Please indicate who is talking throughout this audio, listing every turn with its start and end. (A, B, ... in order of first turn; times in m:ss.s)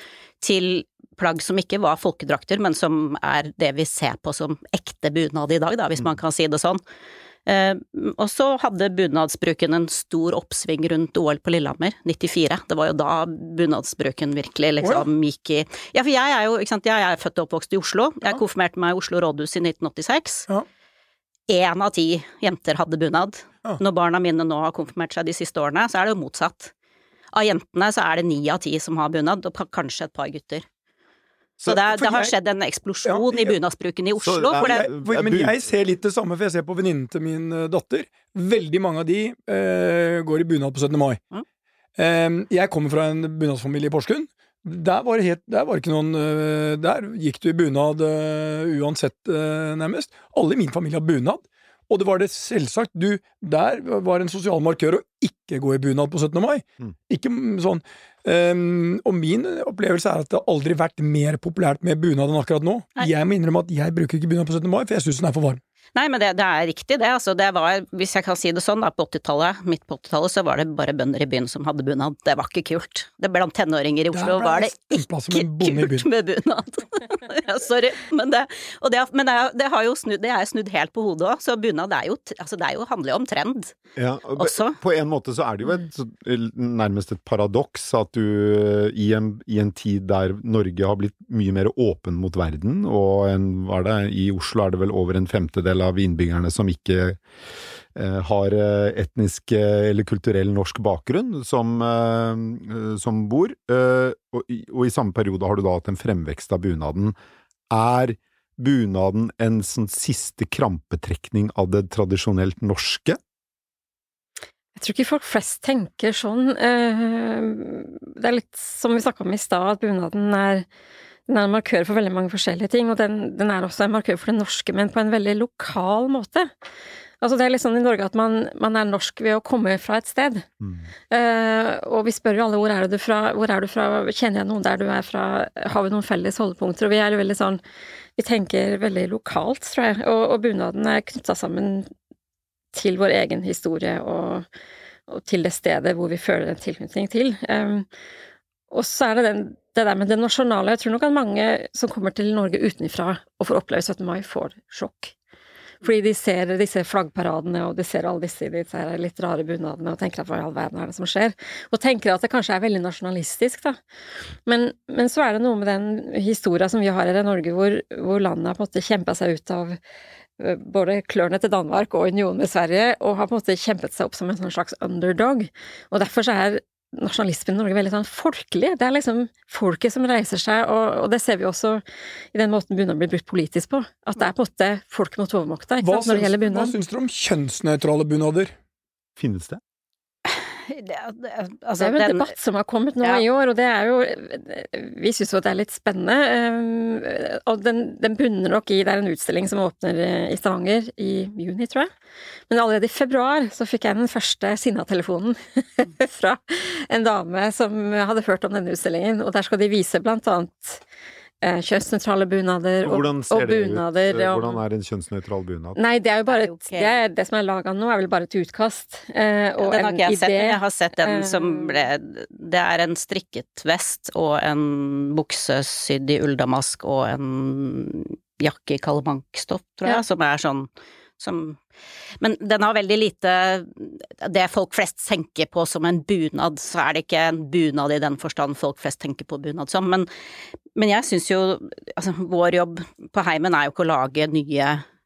0:00.4-0:06.8 A
0:07.4-0:20.5 A
0:14.8-0:15.1 B
0:21.5-0:26.7 A
0:27.3-0:30.6 A
0:31.6-0:32.3 B
0:31.6-0:34.9 A
0:33.0-0:33.6 B
0:34.2-0:35.6 C
0:34.5-0:41.2 B
0:42.0-1:05.6 B
1:05.9-1:23.8 A
1:14.1-1:16.1 B
1:24.0-1:37.2 C
1:24.4-1:24.8 A
1:37.9-1:47.1 C
1:47.7-1:53.2 C
1:54.7-2:00.7 D
2:01.3-2:06.5 D
2:07.2-2:10.5 D
2:11.1-2:17.6 D
2:18.2-2:21.9 D
2:22.7-2:24.4 D
2:25.1-2:27.9 D
2:28.7-2:35.1 D
2:35.8-2:43.8 D
2:44.4-2:49.8 D
2:50.4-3:01.8 D
3:02.3-3:06.7 D
3:05.8-3:08.5 B
3:09.2-3:09.6 C
3:10.2-3:12.3 A
3:11.8-3:21.9 D
3:22.5-3:30.8 D
3:31.4-3:34.6 D
3:32.8-3:35.8 C
3:35.8-3:41.8 D
3:36.3-3:36.9 A
3:39.6-3:51.6 A
3:52.2-4:00.1 A
4:00.7-4:04.8 A